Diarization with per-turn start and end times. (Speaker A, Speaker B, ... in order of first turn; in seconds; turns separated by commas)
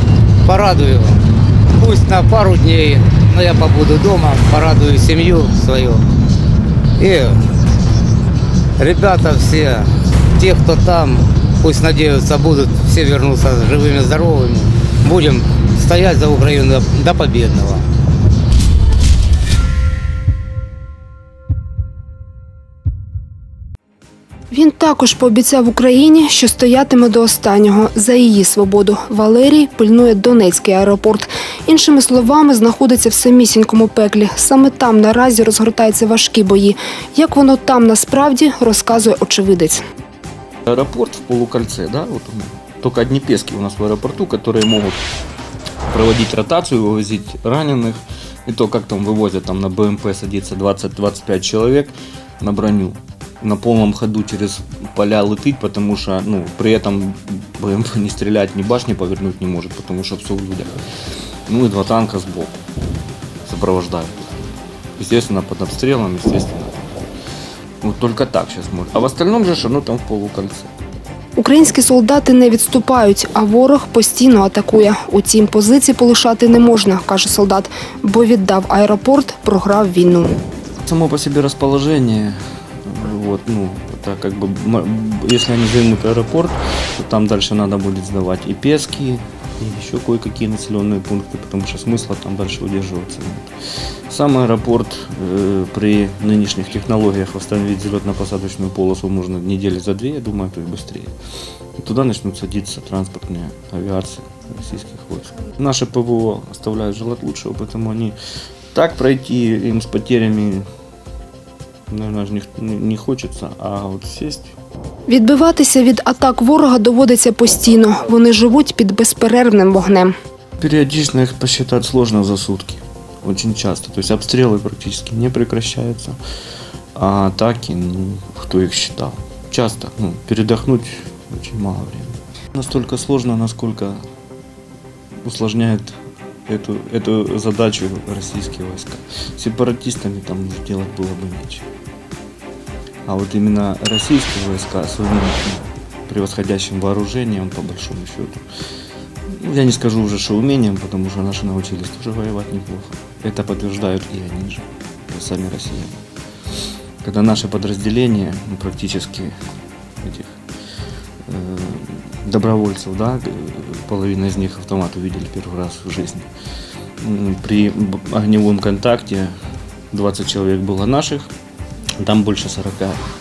Speaker A: 0.4-6.0, Speaker A: 7.0-7.4, Speaker A: 8.8-17.9, Speaker B: 24.5-39.8, Speaker C: 40.7-45.0, Speaker C: 45.9-60.8, Speaker C: 61.5-62.6, Speaker C: 63.4-66.8, Speaker C: 67.8-70.7, Speaker B: 71.4-80.3, Speaker C: 80.8-93.5, Speaker C: 94.1-101.1, Speaker C: 101.8-108.2, Speaker C: 108.7-110.7, Speaker C: 111.9-114.5, Speaker B: 115.1-120.1, Speaker C: 120.6-126.2, Speaker C: 126.9-134.0, Speaker C: 135.2-141.7, Speaker C: 143.1-148.4, Speaker C: 149.3-156.0, Speaker C: 157.0-159.3, Speaker C: 160.0-160.4, Speaker C: 161.2-166.3, Speaker C: 167.0-169.3, Speaker C: 169.9-171.3, Speaker C: 172.0-173.0